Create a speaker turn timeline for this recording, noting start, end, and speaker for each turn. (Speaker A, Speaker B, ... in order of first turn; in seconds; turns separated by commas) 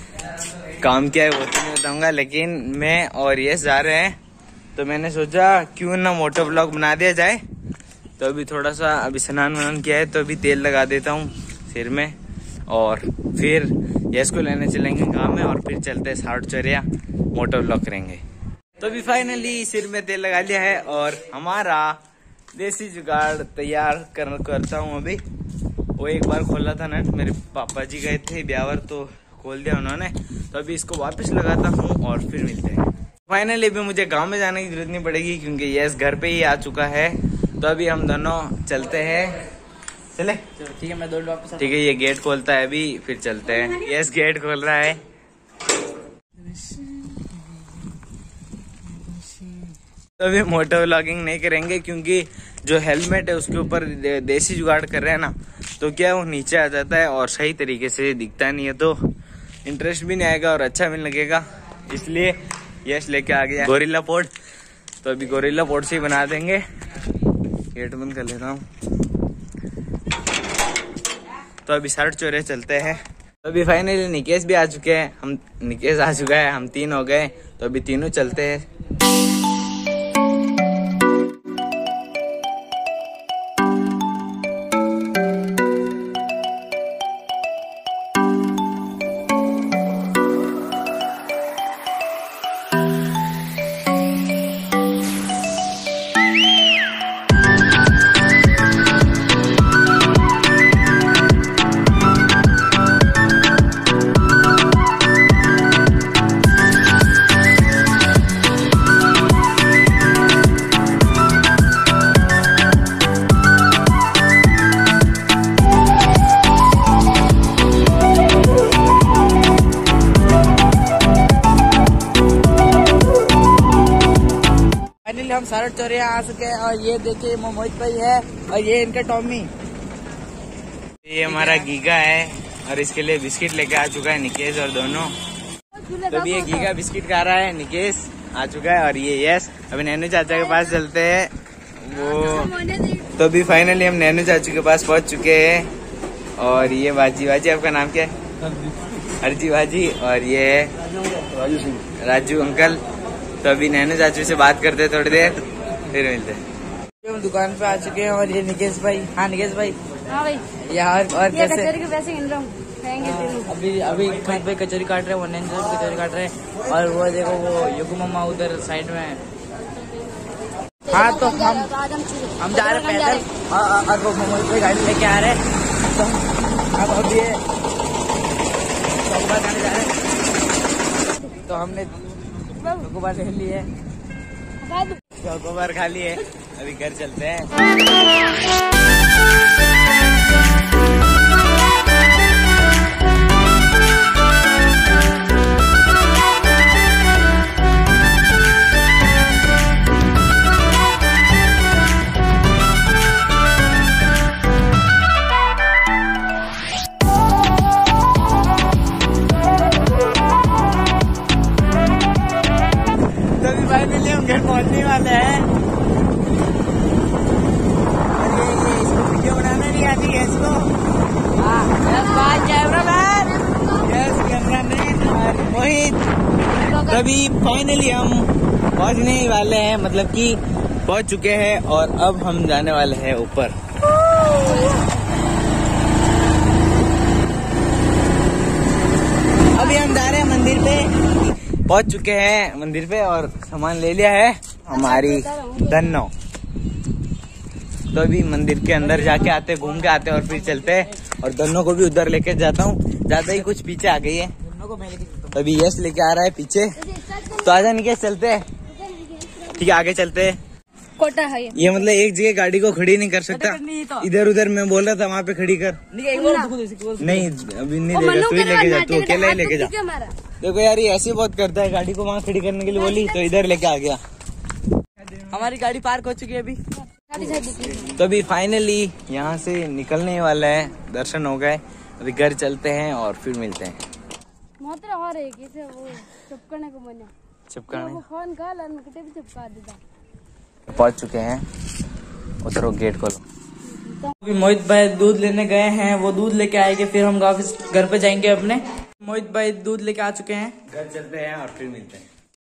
Speaker A: 0.8-4.2, Speaker A: 4.7-7.4, Speaker A: 8.2-12.1, Speaker A: 12.7-18.2, Speaker A: 18.8-22.0, Speaker A: 22.5-25.2, Speaker A: 26.0-39.4, Speaker A: 40.1-40.5, Speaker B: 40.6-41.7, Speaker A: 41.6-45.0, Speaker A: 50.2-59.0, Speaker A: 59.6-64.3, Speaker A: 65.0-66.6, Speaker A: 67.7-68.7, Speaker A: 71.6-78.6, Speaker B: 125.0-129.5, Speaker A: 131.0-135.1, Speaker B: 131.3-131.7, Speaker C: 135.7-136.4, Speaker A: 136.1-145.7, Speaker C: 142.6-143.0, Speaker A: 146.4-148.1, Speaker A: 149.2-150.7, Speaker A: 151.6-152.8, Speaker A: 153.4-156.4, Speaker B: 157.0-159.8, Speaker C: 160.1-160.4, Speaker B: 160.4-161.8, Speaker C: 161.3-163.5, Speaker B: 162.9-169.2, Speaker B: 170.8-171.7, Speaker C: 171.0-173.2, Speaker B: 172.4-177.4, Speaker B: 179.0-179.9, Speaker B: 181.3-181.9, Speaker B: 182.6-183.7, Speaker C: 184.7-185.0, Speaker A: 185.2-187.5, Speaker A: 213.3-215.5, Speaker A: 218.1-220.7, Speaker B: 221.4-223.4, Speaker A: 223.6-226.0, Speaker A: 226.7-233.5, Speaker C: 234.3-235.0, Speaker A: 239.4-246.1, Speaker C: 244.7-246.0, Speaker A: 247.9-254.3, Speaker B: 254.6-255.2, Speaker A: 255.2-258.4, Speaker C: 257.0-257.2, Speaker C: 258.7-259.5, Speaker A: 259.4-260.4, Speaker C: 261.0-261.6, Speaker A: 261.5-265.8, Speaker B: 263.3-264.1, Speaker B: 265.9-267.2, Speaker C: 266.2-266.5, Speaker A: 267.0-269.7, Speaker C: 267.9-270.1, Speaker A: 270.4-274.0, Speaker B: 275.2-276.6, Speaker C: 277.1-277.9, Speaker A: 277.9-283.8, Speaker C: 284.6-287.1, Speaker A: 287.5-288.1, Speaker C: 287.7-289.8, Speaker A: 290.7-291.4, Speaker A: 292.4-293.2, Speaker B: 294.1-300.5, Speaker A: 300.7-302.1